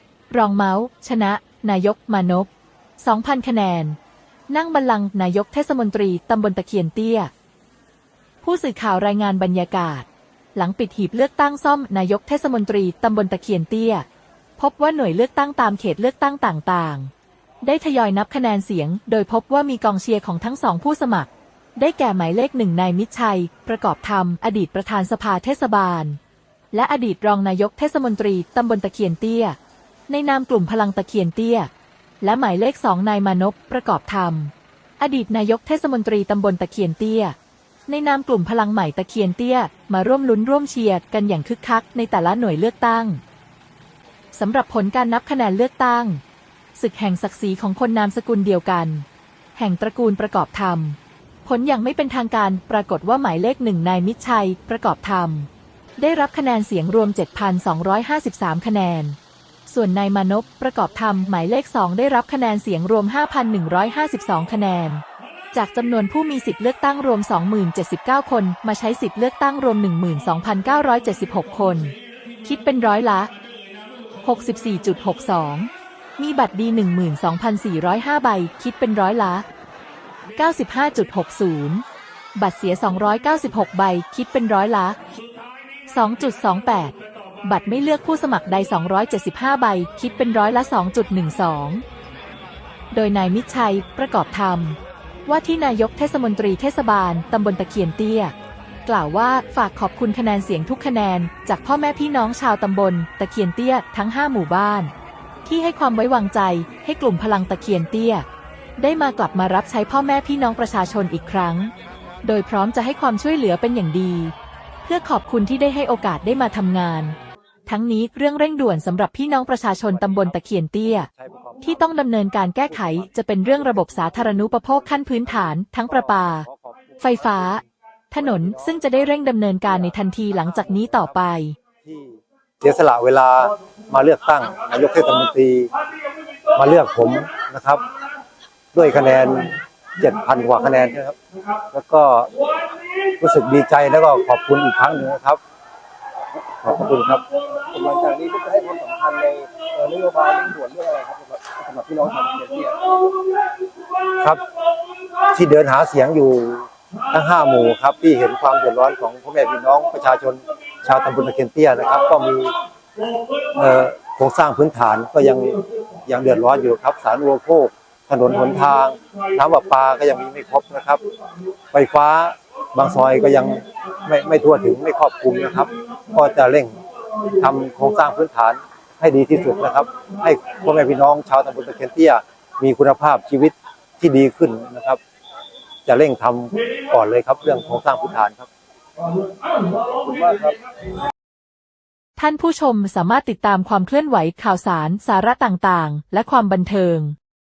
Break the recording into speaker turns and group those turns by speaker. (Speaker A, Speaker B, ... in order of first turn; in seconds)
Speaker A: 0.3-4.0, 4.5-7.3, 8.4-14.1, 14.6-26.2, 26.7-29.6, 30.1-37.4, 37.9-43.2, 44.3-46.2, 46.7-73.3, 74.2-79.5, 80.4-81.8, 82.3-85.0, 85.9-91.8, 92.9-98.3, 98.8-104.9, 105.4-108.2, 108.8-121.1, 121.6-126.5, 127.0-131.6, 192.2-197.2
Speaker B: 120.9-121.8, 122.7-125.2, 125.9-127.5, 129.8-131.1, 131.8-135.7, 136.5-137.8, 138.7-141.2, 141.7-142.3, 143.1-145.4, 146.6-147.2, 154.1-154.4, 155.3-162.6, 163.5-171.0, 171.7-185.0, 185.8-188.5, 189.9-190.5
Speaker C: 147.7-152.9